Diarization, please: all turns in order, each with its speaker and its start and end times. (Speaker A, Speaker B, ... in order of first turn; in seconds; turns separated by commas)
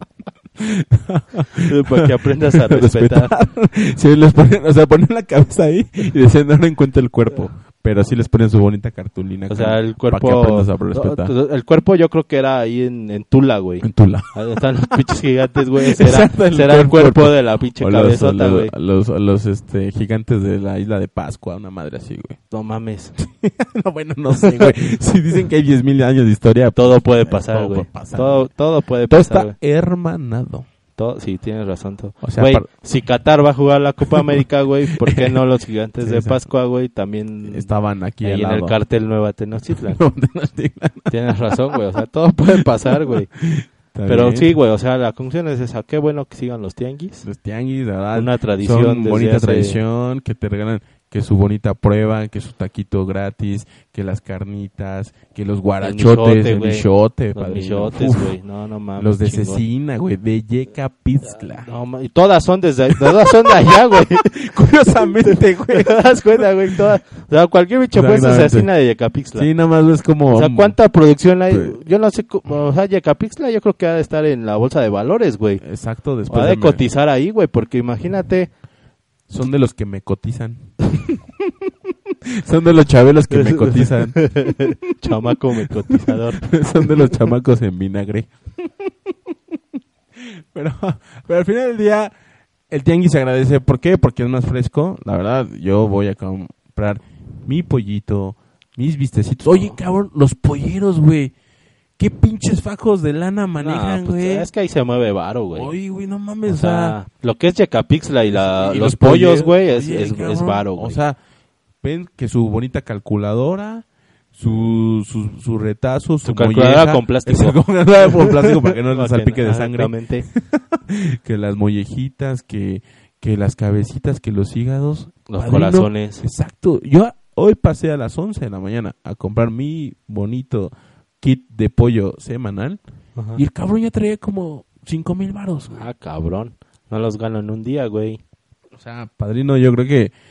Speaker A: 0.6-11.3, Speaker B: 1.5-3.3, Speaker B: 9.5-18.7, Speaker A: 13.8-14.9, Speaker A: 15.8-22.4, Speaker B: 22.5-23.1, Speaker A: 23.2-28.5, Speaker B: 24.4-24.7, Speaker B: 26.7-29.5, Speaker A: 29.1-30.7, Speaker B: 30.9-37.7, Speaker A: 32.2-32.7, Speaker A: 34.1-35.4, Speaker A: 36.0-36.4, Speaker A: 37.5-38.8, Speaker B: 38.2-40.0, Speaker A: 39.7-41.5, Speaker B: 41.1-43.3, Speaker A: 42.5-44.5, Speaker B: 44.1-47.2, Speaker A: 47.2-58.3, Speaker B: 48.1-49.8, Speaker B: 55.8-59.6, Speaker A: 59.0-61.7, Speaker B: 61.6-69.5, Speaker A: 62.9-66.8, Speaker A: 67.9-68.7, Speaker A: 69.3-70.8, Speaker B: 70.3-75.6, Speaker A: 71.5-71.8, Speaker A: 75.6-76.8, Speaker B: 76.3-78.5, Speaker A: 79.3-89.3, Speaker B: 83.3-87.1, Speaker A: 90.2-92.1, Speaker A: 92.7-101.3, Speaker A: 102.0-104.5, Speaker B: 103.6-105.7, Speaker A: 105.5-107.0, Speaker B: 106.5-111.0, Speaker A: 108.3-111.2, Speaker A: 111.8-132.8, Speaker B: 116.2-120.3, Speaker B: 125.3-126.2, Speaker A: 133.3-135.8, Speaker B: 135.7-138.2, Speaker A: 138.7-140.1